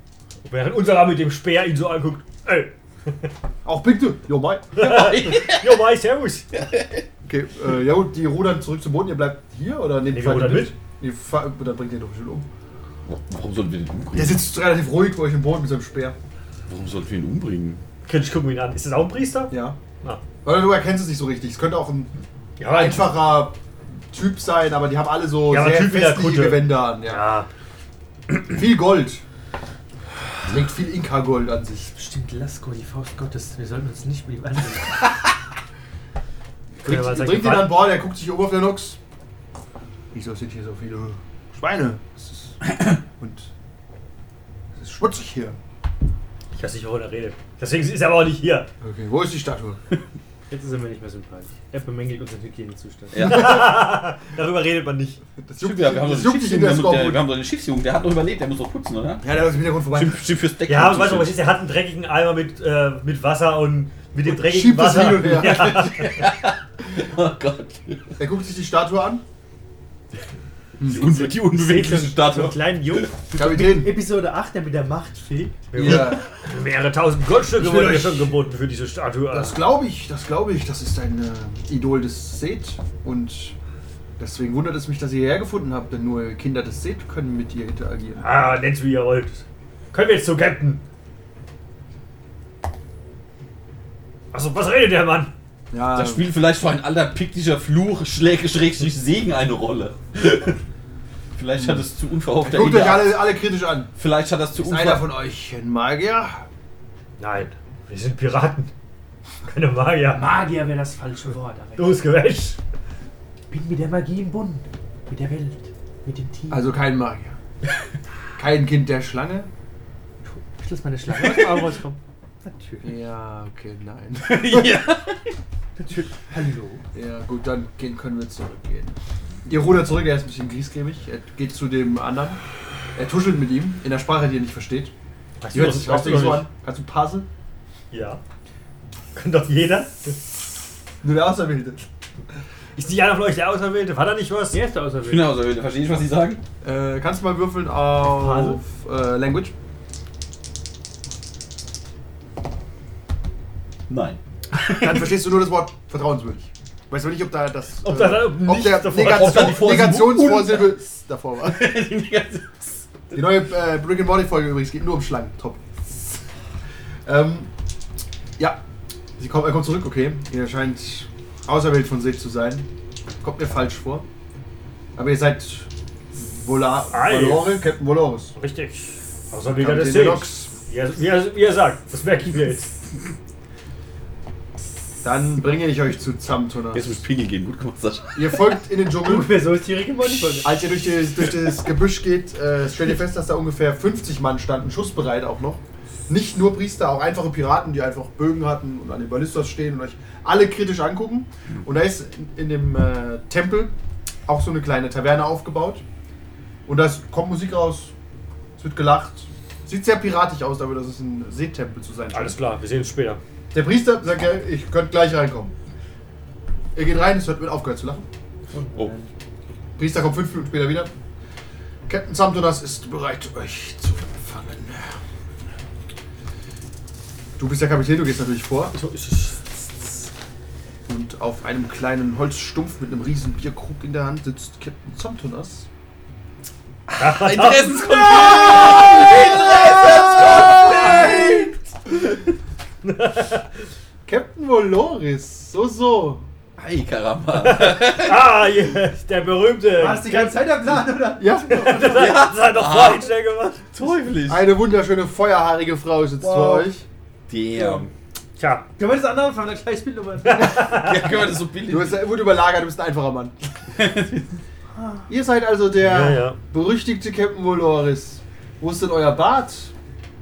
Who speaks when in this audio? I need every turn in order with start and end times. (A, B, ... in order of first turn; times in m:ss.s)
0:00.4-0:02.7 A
0:03.6-0:04.8 B
0:04.8-0:06.6 A
0:04.8-0:05.8 C
0:06.5-0:07.0 C
0:07.3-0:12.5 B
0:10.1-0:10.7 A
0:13.1-0:14.4 C
0:14.1-0:16.2 B
0:16.7-0:17.8 C
0:18.1-0:20.2 A
0:19.5-0:19.8 B
0:20.4-0:22.1 B
0:22.6-0:23.1 A
0:22.7-0:23.6 B
0:24.1-0:27.3 B
0:25.5-0:27.5 A
0:28.5-0:29.2 B
0:30.4-0:31.9 B
0:32.0-0:34.8 D
0:36.8-0:39.0 B
0:36.8-0:37.8 A
0:40.1-0:43.5 B
0:44.8-0:45.6 B
0:46.5-0:48.7 A
0:48.8-0:49.8 B
0:50.5-0:53.3 D
0:53.1-0:53.7 C
0:53.2-0:55.2 A
0:55.4-0:57.2 B
0:55.6-1:01.4 C
0:59.2-1:00.2 B
1:00.7-1:06.3 A
1:04.2-1:05.9 B
1:05.2-1:08.2 C
1:08.2-1:09.2 B
1:10.8-1:11.0 B
1:10.8-1:13.1 C
1:11.6-1:13.1 A
1:11.8-1:15.8 D
1:13.4-1:14.0 B
1:15.7-1:19.6 A
1:15.8-1:16.3 B
1:17.5-1:18.3 B
1:19.3-1:23.6 B
1:24.2-1:28.2 B
1:28.2-1:30.8 A
1:34.3-1:35.3 A
1:35.7-1:36.3 B
1:36.0-1:40.6 C
1:41.4-1:43.2 C
1:42.4-1:43.9 B
1:44.0-1:45.1 C
1:44.6-1:46.4 B
1:47.2-1:48.7 A
1:49.5-1:50.3 A
1:50.1-1:52.0 D
1:51.8-1:52.6 A
1:53.5-1:56.7 D
1:56.5-1:57.3 B
1:58.4-1:59.5 B
2:00.3-2:02.9 D
2:01.1-2:01.7 C
2:02.8-2:04.8 B
2:04.2-2:05.2 C
2:05.8-2:06.8 D
2:06.9-2:12.4 B
2:13.0-2:14.9 B
2:15.4-2:16.5 A
2:15.5-2:17.3 B
2:17.9-2:18.2 A
2:19.1-2:20.2 A
2:21.0-2:21.8 B
2:22.8-2:24.6 A
2:24.5-2:25.3 D
2:25.0-2:26.4 C
2:26.6-2:29.5 B
2:28.0-2:28.6 D
2:33.9-2:35.0 C
2:34.6-2:41.6 B
2:37.8-2:39.6 A
2:38.9-2:40.8 C
2:41.4-2:42.9 C
2:43.1-2:46.2 B
2:47.0-2:47.5 B
2:49.2-2:52.7 B
2:53.2-2:54.0 B
2:55.0-2:58.3 B
2:56.9-2:57.6 A
2:58.4-3:02.7 A
2:59.6-3:00.5 B
3:05.0-3:07.0 B
3:06.7-3:08.4 C
3:08.1-3:09.4 B
3:09.0-3:10.6 D
3:10.4-3:23.7 B
3:24.3-3:25.8 B
3:26.6-3:27.9 B
3:28.6-3:32.4 B
3:32.1-3:33.2 A
3:33.5-3:35.5 B
3:36.8-3:38.1 B
3:38.5-3:39.1 D
3:39.8-3:40.9 B
3:41.9-3:45.0 B
3:47.4-3:48.8 B
3:48.7-3:49.4 A
3:50.9-3:55.7 B
3:56.9-4:01.8 C
3:57.0-3:58.0 A
4:02.8-4:03.4 A
4:04.1-4:06.3 B
4:06.6-4:08.3 C
4:07.4-4:10.5 A
4:09.8-4:11.8 D
4:11.0-4:12.2 B
4:11.5-4:13.7 A
4:11.8-4:13.1 C
4:13.7-4:14.5 C
4:14.3-4:16.8 B
4:16.2-4:16.7 D
4:17.3-4:17.9 C
4:17.6-4:17.8 D
4:18.4-4:18.7 A
4:18.8-4:20.8 D
4:20.2-4:21.1 A
4:20.4-4:22.0 C
4:21.7-4:23.4 B
4:23.7-4:24.4 C
4:24.7-4:25.1 D
4:25.1-4:29.7 B
4:25.8-4:26.4 A